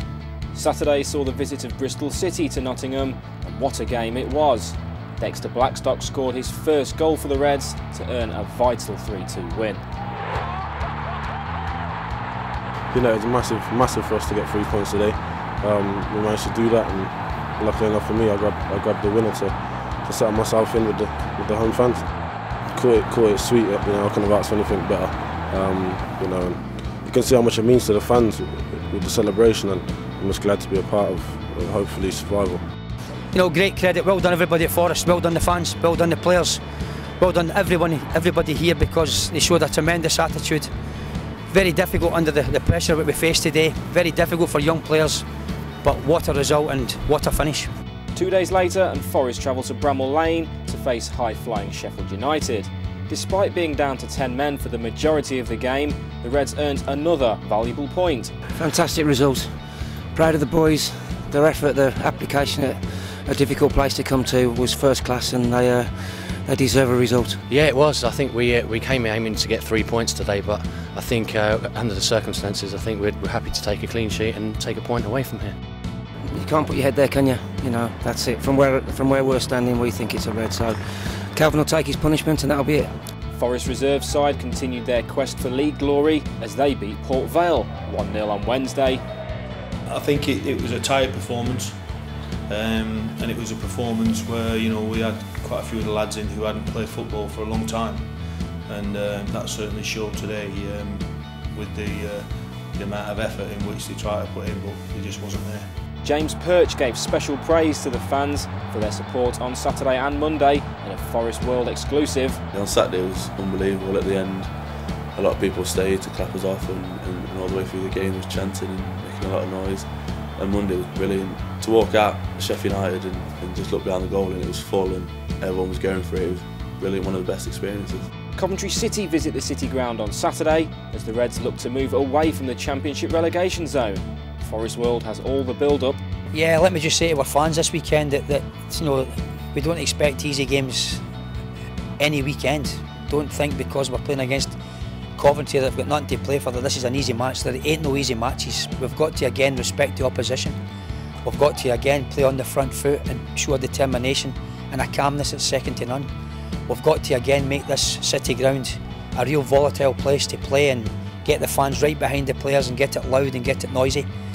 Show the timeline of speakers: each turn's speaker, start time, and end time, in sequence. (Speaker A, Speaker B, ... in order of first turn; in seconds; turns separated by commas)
Speaker A: 0.5-9.8, Speaker B: 12.9-22.1, Speaker B: 22.7-32.6, Speaker C: 33.3-36.6, Speaker C: 37.2-40.7, Speaker C: 41.5-45.2, Speaker C: 45.8-47.7, Speaker A: 48.1-58.3, Speaker D: 58.6-67.5, Speaker E: 67.5-75.6, Speaker D: 76.3-82.9, Speaker A: 83.3-89.0, Speaker F: 89.9-91.8, Speaker F: 92.5-98.0, Speaker F: 98.7-101.0, Speaker F: 101.5-105.6, Speaker A: 106.0-112.4, Speaker G: 112.5-114.5, Speaker G: 115.1-128.1, Speaker A: 128.3-136.0, Speaker C: 136.3-141.0, Speaker C: 142.0-144.6, Speaker C: 145.2-150.6, Speaker C: 151.2-156.1, Speaker C: 156.7-164.1